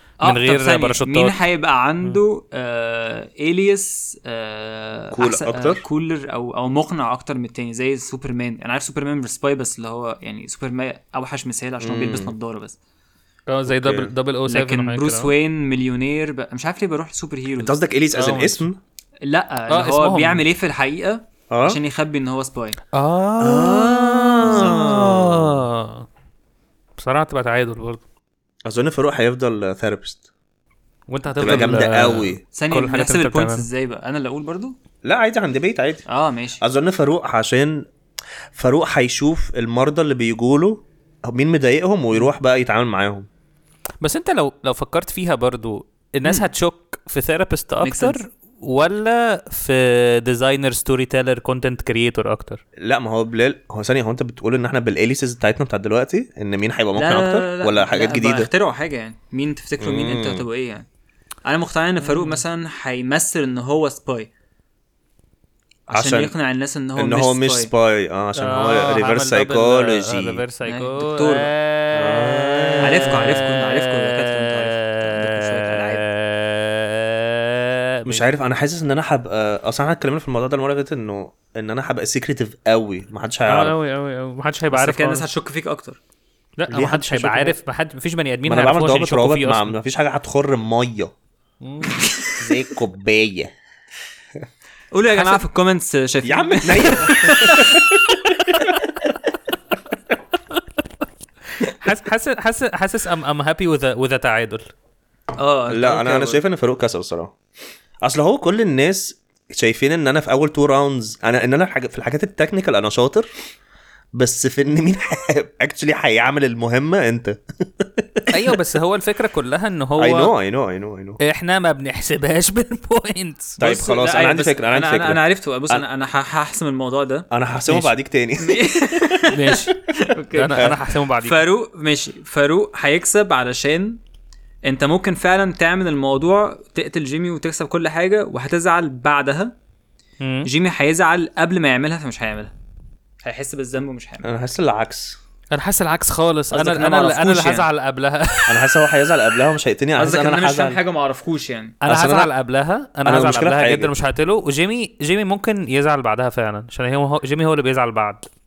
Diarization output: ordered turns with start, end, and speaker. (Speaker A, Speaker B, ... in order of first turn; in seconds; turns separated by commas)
Speaker A: 0.2-1.4, Speaker B: 0.2-12.8, Speaker C: 5.1-5.8, Speaker C: 11.8-12.3, Speaker A: 13.5-15.3, Speaker C: 13.7-14.1, Speaker B: 14.5-17.8, Speaker C: 17.6-18.8, Speaker A: 18.1-18.6, Speaker B: 19.2-22.8, Speaker A: 19.7-20.4, Speaker C: 21.5-21.8, Speaker A: 22.9-26.1, Speaker C: 23.4-25.6, Speaker A: 27.0-28.0, Speaker C: 28.6-30.2, Speaker A: 31.1-33.6, Speaker C: 31.4-32.4, Speaker B: 32.5-34.8, Speaker C: 35.0-36.0, Speaker B: 36.1-36.6, Speaker C: 36.6-37.9, Speaker C: 38.5-43.3, Speaker A: 44.0-52.6, Speaker B: 47.8-48.2, Speaker C: 52.8-58.5, Speaker B: 57.0-60.9, Speaker C: 59.8-60.4, Speaker B: 61.5-64.3, Speaker A: 62.0-62.4, Speaker B: 65.9-67.7, Speaker C: 65.9-66.3, Speaker C: 67.0-70.4, Speaker A: 68.3-78.2, Speaker B: 70.7-71.5, Speaker C: 71.9-73.4, Speaker B: 72.8-76.0, Speaker C: 78.0-83.7, Speaker A: 83.5-85.2, Speaker B: 84.7-86.0, Speaker A: 86.6-89.8, Speaker C: 86.7-87.5, Speaker C: 88.4-91.1, Speaker A: 91.6-92.0, Speaker C: 92.4-93.5, Speaker B: 94.9-97.8, Speaker C: 96.2-98.8, Speaker A: 101.6-104.6, Speaker B: 105.4-106.4, Speaker C: 105.7-107.3, Speaker C: 108.0-113.3, Speaker C: 114.1-118.6, Speaker A: 118.3-120.3, Speaker C: 120.0-121.2, Speaker A: 121.2-123.7, Speaker C: 123.6-125.8, Speaker B: 123.6-127.3, Speaker C: 127.3-129.2, Speaker A: 127.7-127.9, Speaker B: 128.4-134.0, Speaker A: 129.2-129.8, Speaker A: 130.3-131.4, Speaker B: 134.6-139.6, Speaker A: 140.2-140.5, Speaker B: 140.4-142.5, Speaker B: 143.2-144.3, Speaker C: 144.2-145.2, Speaker A: 145.5-148.8, Speaker B: 146.5-147.7, Speaker C: 148.5-150.8, Speaker B: 149.9-151.8, Speaker A: 151.8-158.2, Speaker C: 151.8-152.3, Speaker C: 153.0-153.9